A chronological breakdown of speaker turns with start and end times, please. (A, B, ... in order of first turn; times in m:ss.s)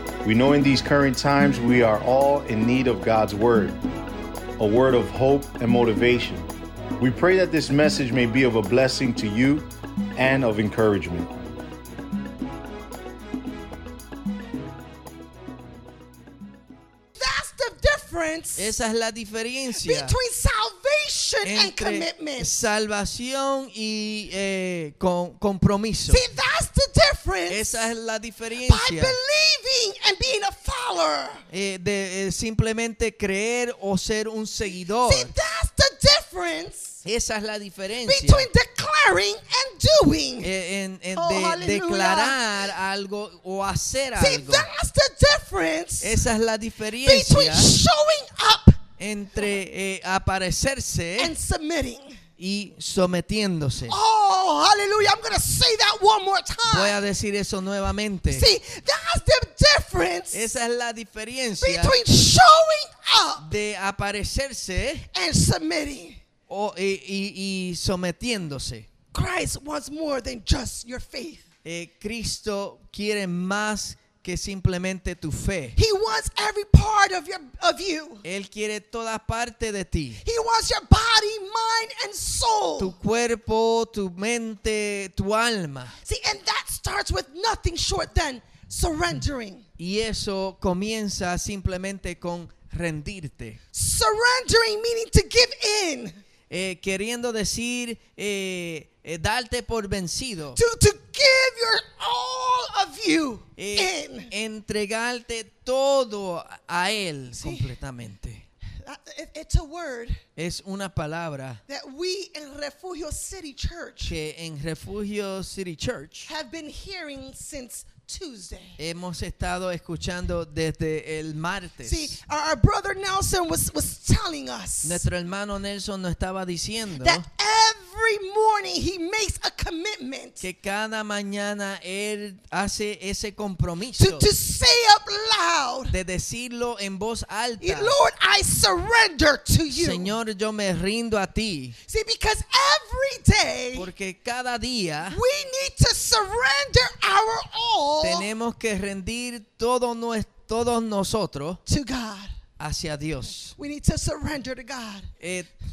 0:00.2-0:03.8 A
0:04.6-0:06.5 A
0:07.0-0:11.3 A
0:17.2-0:18.8 B
0:18.6-0:20.2 C
0:19.7-0:22.7 B
0:21.4-0:26.2 C
0:26.1-0:27.9 B
0:27.5-0:29.2 C
0:28.6-0:31.4 B
0:31.5-0:35.3 C
0:34.7-0:37.0 B
0:37.0-0:38.5 C
0:38.0-0:40.5 B
0:40.4-0:44.7 C
0:41.2-0:42.4 B
0:44.2-0:46.2 B
0:46.0-0:47.8 C
0:47.0-0:48.8 B
0:49.0-0:51.3 C
0:51.2-0:52.2 B
0:52.4-0:54.0 C
0:53.9-0:57.0 B
0:56.6-0:58.5 C
0:58.3-1:00.5 B
1:00.3-1:02.0 C
1:01.6-1:03.5 B
1:03.4-1:05.0 C
1:05.1-1:06.2 B
1:06.5-1:08.9 C
1:09.1-1:11.4 B
1:11.6-1:15.8 C
1:15.8-1:18.2 B
1:18.2-1:20.2 C
1:20.2-1:23.0 B
1:22.8-1:26.0 C
1:26.0-1:29.6 B
1:29.8-1:33.6 C
1:33.7-1:36.2 B
1:36.5-1:40.6 C
1:40.5-1:44.3 B
1:43.6-1:48.4 C
1:47.4-1:47.7 B
1:48.8-1:50.2 B
1:50.4-1:51.6 C
1:51.7-1:54.2 B
1:54.0-1:56.3 C
1:56.3-1:58.8 B
1:58.8-2:02.2 C
2:01.8-2:05.1 B
2:04.8-2:07.2 C
2:06.9-2:10.4 B
2:10.4-2:14.3 C
2:14.0-2:16.0 B
2:15.9-2:18.0 C
2:17.6-2:20.1 B
2:19.7-2:21.8 C
2:21.9-2:23.9 B
2:23.7-2:25.2 C
2:25.0-2:28.3 B
2:28.0-2:31.6 C
2:31.7-2:32.3 B
2:32.6-2:33.6 C
2:33.6-2:35.1 B
2:35.2-2:35.5 C